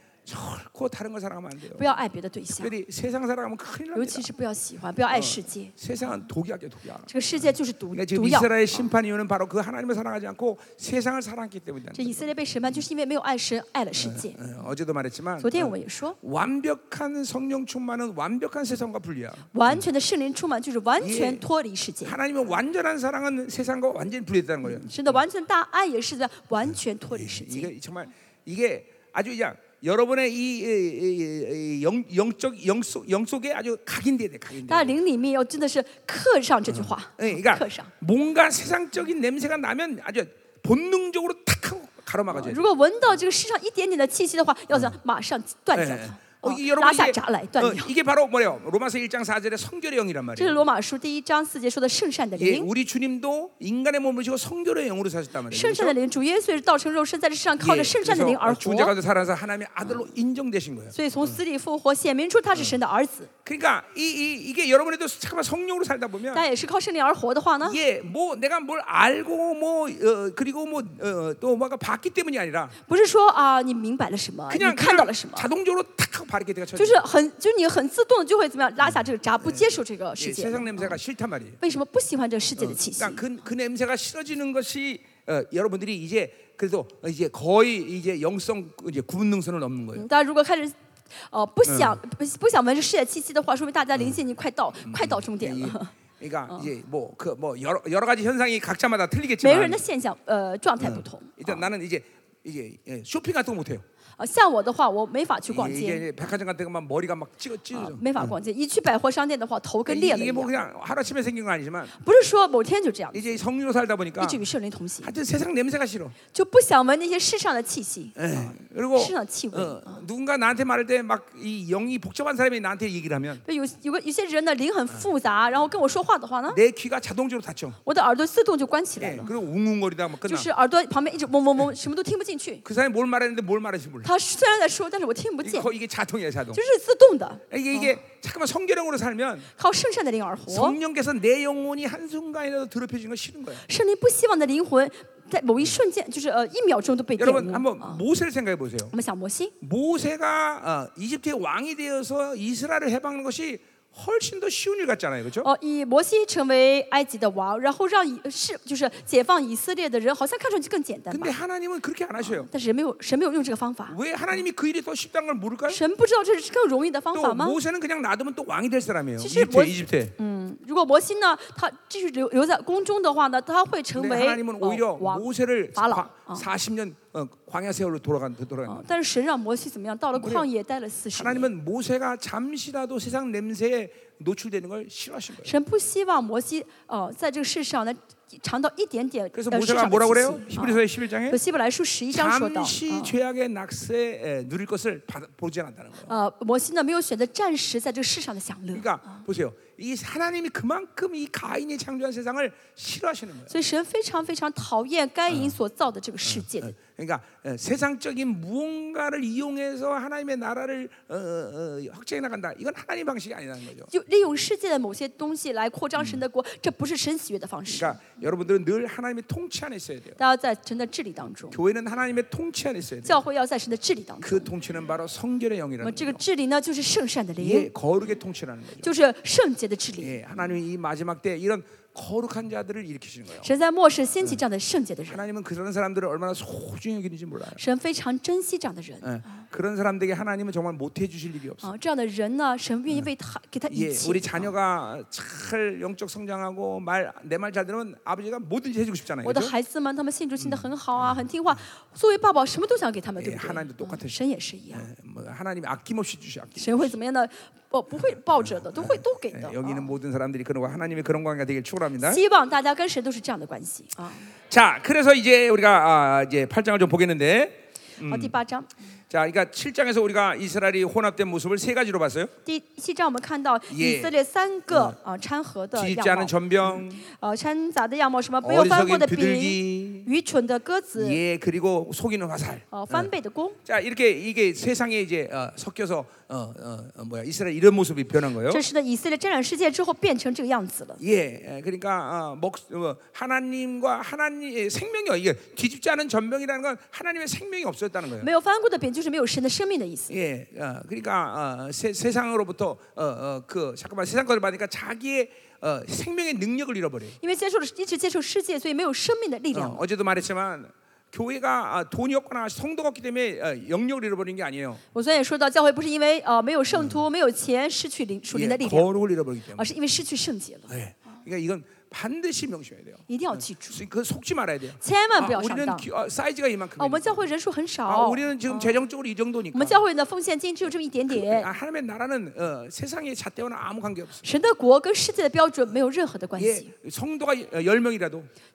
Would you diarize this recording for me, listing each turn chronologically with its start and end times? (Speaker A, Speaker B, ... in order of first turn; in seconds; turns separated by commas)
Speaker A: 0.2-1.9, Speaker B: 1.7-2.7, Speaker A: 2.5-4.3, Speaker B: 3.9-5.7, Speaker A: 5.1-12.8, Speaker B: 7.1-8.9, Speaker B: 11.9-14.4, Speaker A: 13.9-19.9, Speaker B: 15.4-16.2, Speaker B: 19.5-22.1, Speaker A: 21.0-21.4, Speaker A: 22.0-25.2, Speaker B: 24.6-27.7, Speaker A: 27.1-35.0, Speaker B: 34.6-37.9, Speaker A: 36.7-42.7, Speaker B: 42.3-47.9, Speaker A: 45.7-50.6, Speaker B: 50.4-52.7, Speaker A: 52.4-56.0, Speaker B: 55.5-59.0, Speaker A: 57.6-61.4, Speaker B: 60.9-63.3, Speaker A: 63.4-66.5, Speaker B: 66.3-67.8, Speaker A: 67.6-72.7, Speaker B: 72.8-75.5, Speaker A: 74.5-77.0, Speaker B: 76.7-81.0, Speaker A: 78.8-81.6, Speaker B: 81.6-83.2, Speaker A: 82.6-90.0, Speaker B: 89.9-95.9, Speaker A: 91.7-92.0, Speaker A: 94.8-99.8, Speaker B: 99.4-101.7, Speaker A: 100.8-103.8, Speaker B: 104.2-106.0, Speaker A: 105.5-108.3, Speaker B: 107.7-110.5, Speaker A: 109.9-111.9, Speaker B: 112.0-113.4, Speaker A: 113.1-114.5, Speaker B: 114.2-115.1, Speaker A: 115.0-116.2, Speaker B: 116.3-120.0, Speaker A: 118.2-123.4, Speaker B: 123.4-126.6, Speaker A: 126.5-127.8, Speaker B: 127.8-129.3, Speaker A: 129.0-130.5, Speaker B: 130.2-132.6, Speaker A: 132.6-134.1, Speaker B: 134.0-135.7, Speaker A: 135.4-136.6, Speaker B: 136.5-137.9, Speaker A: 137.5-139.5, Speaker B: 139.6-140.8, Speaker A: 140.5-143.6, Speaker B: 143.7-148.0, Speaker A: 147.2-148.9, Speaker B: 148.9-149.5, Speaker A: 149.6-155.5, Speaker B: 155.4-161.4, Speaker A: 161.1-162.5, Speaker B: 162.2-164.0, Speaker A: 163.9-165.8, Speaker B: 165.7-167.6, Speaker A: 167.1-170.1, Speaker B: 169.2-176.5, Speaker A: 173.9-178.8, Speaker B: 178.7-181.5, Speaker A: 180.2-180.5, Speaker A: 181.1-185.5, Speaker B: 185.4-193.2, Speaker A: 189.3-191.4, Speaker A: 192.1-196.1, Speaker B: 196.1-199.2, Speaker A: 198.7-203.6, Speaker B: 203.5-206.8, Speaker A: 205.3-205.6, Speaker A: 206.2-213.9, Speaker B: 213.9-218.0, Speaker A: 217.7-220.2, Speaker B: 220.2-221.6, Speaker A: 221.5-223.2, Speaker B: 223.0-224.5, Speaker A: 224.2-226.2, Speaker B: 225.8-227.7, Speaker A: 227.4-228.9, Speaker B: 228.8-230.2, Speaker A: 230.0-233.5, Speaker B: 233.4-235.2, Speaker A: 235.1-237.6, Speaker B: 237.6-239.4, Speaker A: 239.0-241.7, Speaker B: 241.6-244.5, Speaker A: 243.7-249.5, Speaker B: 249.2-254.9, Speaker A: 250.4-251.2, Speaker A: 253.2-254.2, Speaker A: 254.7-256.9, Speaker B: 256.6-259.9, Speaker A: 257.9-262.2, Speaker B: 262.0-264.3, Speaker A: 264.5-268.4, Speaker B: 268.1-268.7, Speaker A: 269.1-272.3, Speaker B: 272.4-281.2, Speaker A: 273.7-274.1, Speaker A: 274.7-274.9, Speaker A: 275.7-277.0, Speaker A: 278.4-280.1, Speaker A: 281.0-283.1, Speaker B: 282.7-283.6, Speaker A: 283.6-288.6, Speaker B: 288.5-291.0, Speaker A: 291.0-298.3, Speaker B: 298.2-300.1, Speaker A: 300.1-307.2, Speaker B: 307.2-309.8, Speaker A: 309.5-314.8, Speaker B: 314.9-318.9, Speaker A: 316.7-317.0, Speaker A: 318.3-319.7, Speaker B: 319.5-320.7, Speaker A: 320.7-327.2, Speaker B: 323.1-323.8, Speaker B: 324.8-325.9, Speaker B: 326.8-328.8, Speaker A: 327.9-329.8, Speaker B: 329.5-331.5, Speaker A: 331.1-334.2, Speaker B: 334.2-336.7, Speaker A: 336.4-338.3